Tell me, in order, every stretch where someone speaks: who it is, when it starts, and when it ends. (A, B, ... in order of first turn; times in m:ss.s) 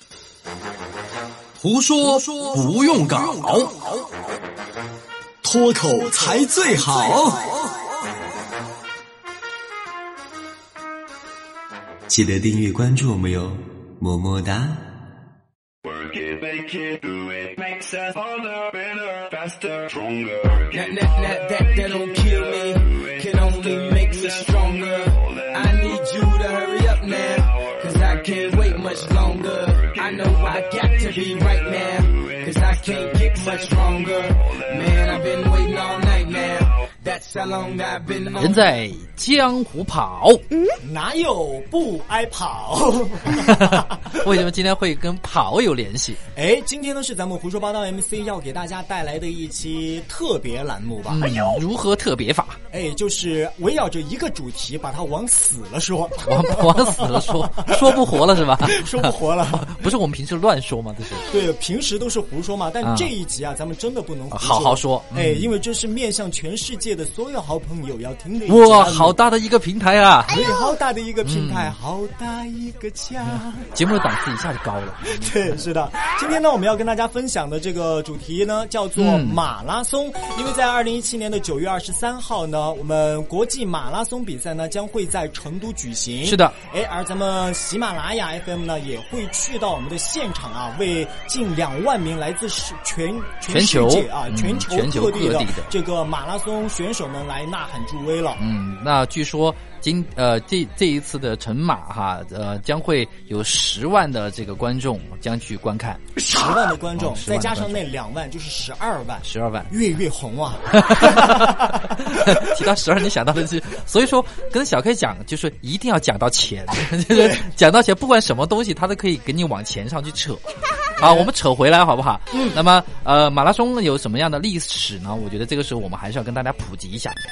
0:01.6-0:03.5 A
0:02.4-0:03.8 B
0:05.5-0:07.5 C
0:06.5-0:07.3 B
0:12.1-0:14.8 B
0:15.8-0:20.7 D
0:20.7-0:38.7 E
0:38.4-0:40.4 A
0:40.8-0:44.3 C
0:43.4-0:46.2 A
0:46.4-0:51.4 C
0:51.1-0:52.6 A
0:52.7-0:59.8 C
0:56.3-1:01.2 A
1:01.2-1:09.2 C
1:02.8-1:03.1 A
1:04.3-1:05.5 A
1:08.5-1:10.4 A
1:10.3-1:13.7 C
1:11.2-1:11.7 A
1:13.7-1:15.3 A
1:15.1-1:38.4 C
1:19.0-1:19.4 A
1:26.2-1:26.6 A
1:33.5-1:35.7 A
1:38.4-1:46.0 A
1:46.2-1:52.5 C
1:47.0-1:47.8 A
1:49.2-1:49.7 A
1:50.7-2:00.4 A
1:57.1-1:57.5 C
2:01.0-2:01.3 C
2:01.0-2:07.2 A
2:02.3-2:02.6 C